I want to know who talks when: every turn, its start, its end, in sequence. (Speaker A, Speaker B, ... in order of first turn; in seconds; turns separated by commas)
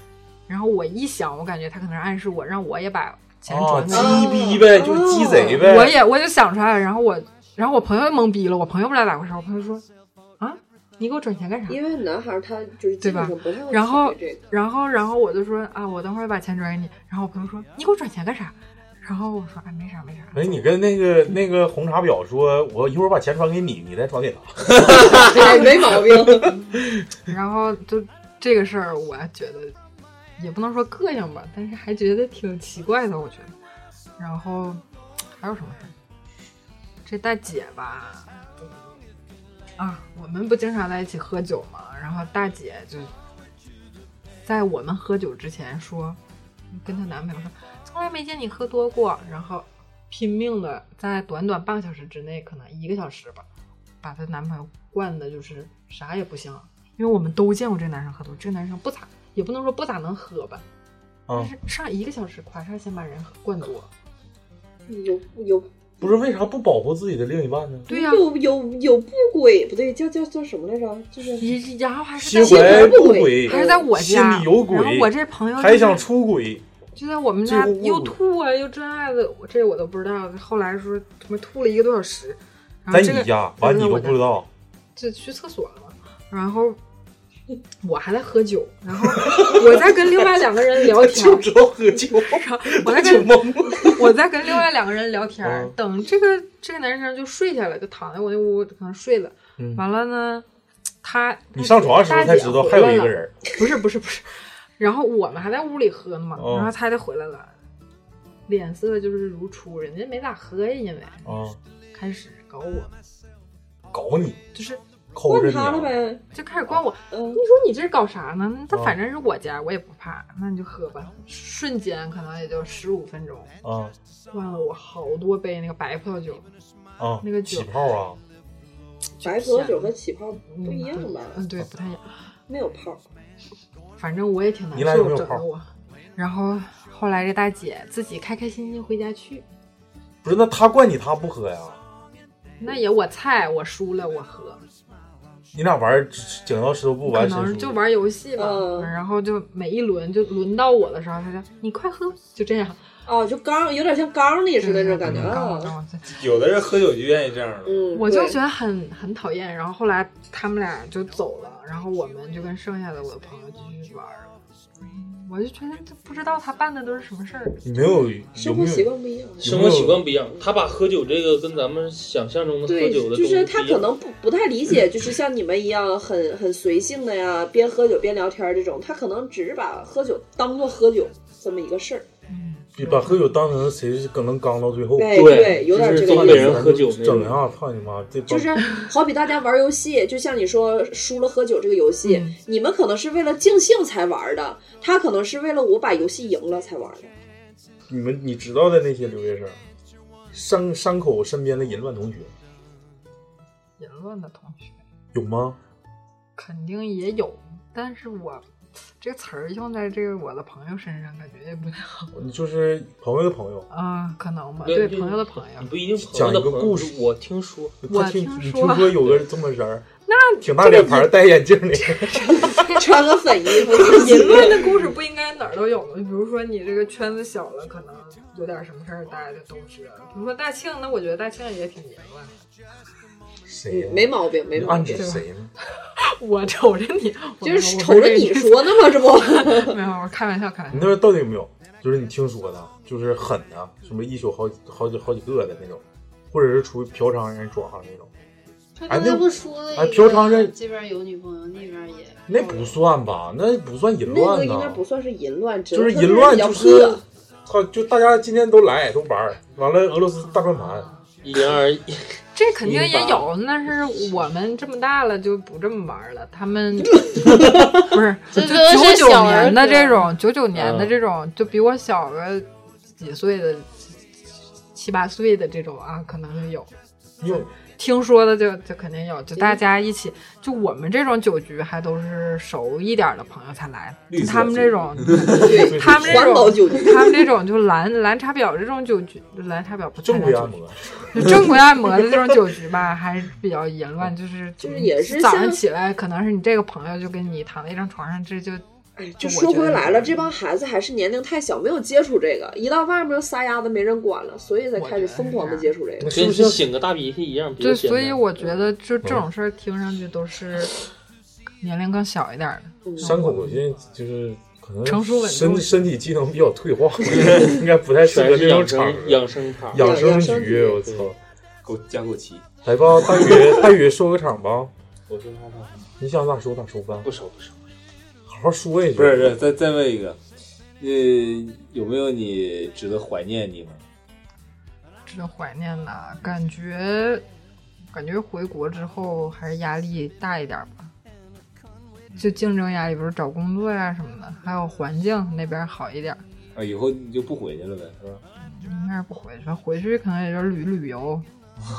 Speaker A: 0.5-4.4, Speaker B: 3.5-6.0, Speaker C: 3.9-5.6, Speaker A: 5.3-9.8, Speaker A: 10.4-11.8, Speaker C: 11.7-14.4, Speaker A: 13.0-20.8, Speaker B: 20.3-27.0, Speaker C: 24.9-26.5, Speaker A: 27.3-29.8, Speaker A: 30.4-33.5, Speaker A: 34.2-34.8, Speaker A: 35.4-35.9, Speaker A: 37.0-38.9, Speaker A: 39.8-43.1, Speaker A: 44.5-46.2, Speaker A: 46.7-53.5, Speaker A: 54.0-60.6, Speaker B: 61.3-61.5, Speaker A: 61.3-63.9, Speaker C: 64.9-66.1, Speaker B: 66.0-67.9, Speaker A: 67.9-68.3, Speaker C: 67.9-71.6, Speaker A: 71.4-76.0, Speaker B: 72.2-76.7, Speaker C: 72.3-73.9, Speaker A: 77.0-84.2, Speaker B: 77.4-78.2, Speaker B: 82.9-84.5, Speaker A: 85.0-86.8, Speaker A: 87.8-91.5, Speaker B: 89.0-94.2, Speaker A: 92.2-100.5, Speaker B: 95.4-95.8, Speaker B: 99.6-99.8, Speaker A: 101.0-107.5, Speaker B: 101.5-103.4, Speaker B: 106.4-106.7, Speaker A: 108.5-111.3, Speaker B: 111.2-111.6, Speaker A: 111.9-112.9, Speaker B: 113.9-114.4, Speaker A: 114.5-114.8, Speaker B: 115.1-116.0, Speaker C: 115.3-116.2, Speaker A: 116.3-123.5, Speaker C: 117.1-117.4, Speaker B: 118.7-119.0, Speaker B: 123.6-124.0, Speaker A: 124.3-126.5, Speaker B: 127.0-128.2, Speaker A: 127.2-127.7, Speaker A: 129.2-132.1, Speaker C: 129.2-131.4, Speaker C: 132.5-133.0, Speaker A: 134.0-139.4, Speaker B: 134.7-135.4, Speaker B: 140.2-141.8, Speaker A: 142.6-144.6, Speaker B: 145.5-147.8, Speaker A: 147.1-152.8, Speaker C: 148.3-148.9, Speaker C: 153.1-155.8, Speaker A: 154.6-156.1, Speaker B: 155.1-155.3, Speaker D: 156.1-157.9, Speaker C: 157.7-158.4, Speaker A: 157.9-167.6, Speaker B: 167.6-168.9, Speaker C: 168.4-169.8, Speaker B: 169.4-170.0, Speaker E: 169.4-173.9, Speaker C: 172.7-182.1, Speaker A: 182.3-183.4, Speaker B: 182.8-188.6, Speaker C: 185.0-186.8, Speaker E: 185.1-187.4, Speaker C: 188.3-197.1, Speaker A: 192.0-192.3, Speaker B: 197.9-199.6, Speaker B: 200.3-202.3, Speaker A: 203.8-204.8, Speaker B: 205.1-205.6, Speaker A: 206.4-212.1, Speaker B: 212.1-213.7, Speaker A: 213.7-215.7, Speaker E: 214.7-217.8, Speaker B: 216.0-217.0, Speaker B: 217.8-219.9, Speaker A: 217.9-219.1, Speaker A: 220.1-221.2, Speaker B: 220.4-222.6, Speaker A: 221.9-222.8, Speaker C: 222.5-224.8, Speaker A: 223.7-232.4, Speaker B: 233.5-235.5, Speaker C: 233.7-235.1, Speaker A: 234.9-235.2, Speaker A: 236.0-241.0, Speaker C: 237.4-239.8, Speaker B: 240.7-248.1, Speaker F: 248.8-252.8, Speaker B: 248.9-250.5, Speaker B: 252.3-254.8, Speaker C: 254.1-257.0, Speaker B: 255.7-260.9, Speaker A: 260.2-261.1, Speaker E: 261.2-262.2, Speaker A: 262.4-273.9, Speaker B: 262.7-263.0, Speaker F: 268.3-270.1, Speaker E: 270.6-270.9, Speaker A: 274.7-276.7, Speaker B: 277.2-277.5, Speaker A: 277.3-290.6, Speaker D: 284.1-285.5, Speaker C: 285.4-287.3, Speaker B: 285.4-286.4, Speaker B: 290.0-292.2, Speaker A: 291.1-298.6, Speaker C: 294.6-295.6, Speaker C: 299.0-306.1, Speaker A: 299.2-300.3, Speaker A: 304.8-305.7, Speaker B: 306.0-306.6, Speaker E: 306.1-308.6, Speaker A: 307.6-310.8, Speaker A: 311.6-313.6, Speaker C: 312.9-313.2, Speaker B: 313.0-321.2, Speaker A: 314.9-315.9, Speaker E: 318.0-320.2, Speaker C: 319.8-320.9, Speaker E: 320.8-321.1, Speaker D: 321.6-322.5, Speaker B: 322.6-324.7, Speaker D: 323.0-323.6, Speaker D: 325.1-325.9, Speaker B: 326.0-327.1, Speaker E: 327.0-327.7, Speaker B: 328.3-329.4, Speaker D: 329.0-330.2, Speaker D: 330.8-333.8, Speaker A: 335.1-337.2, Speaker A: 337.9-340.9, Speaker A: 342.2-346.2, Speaker D: 346.6-348.2, Speaker A: 348.4-351.2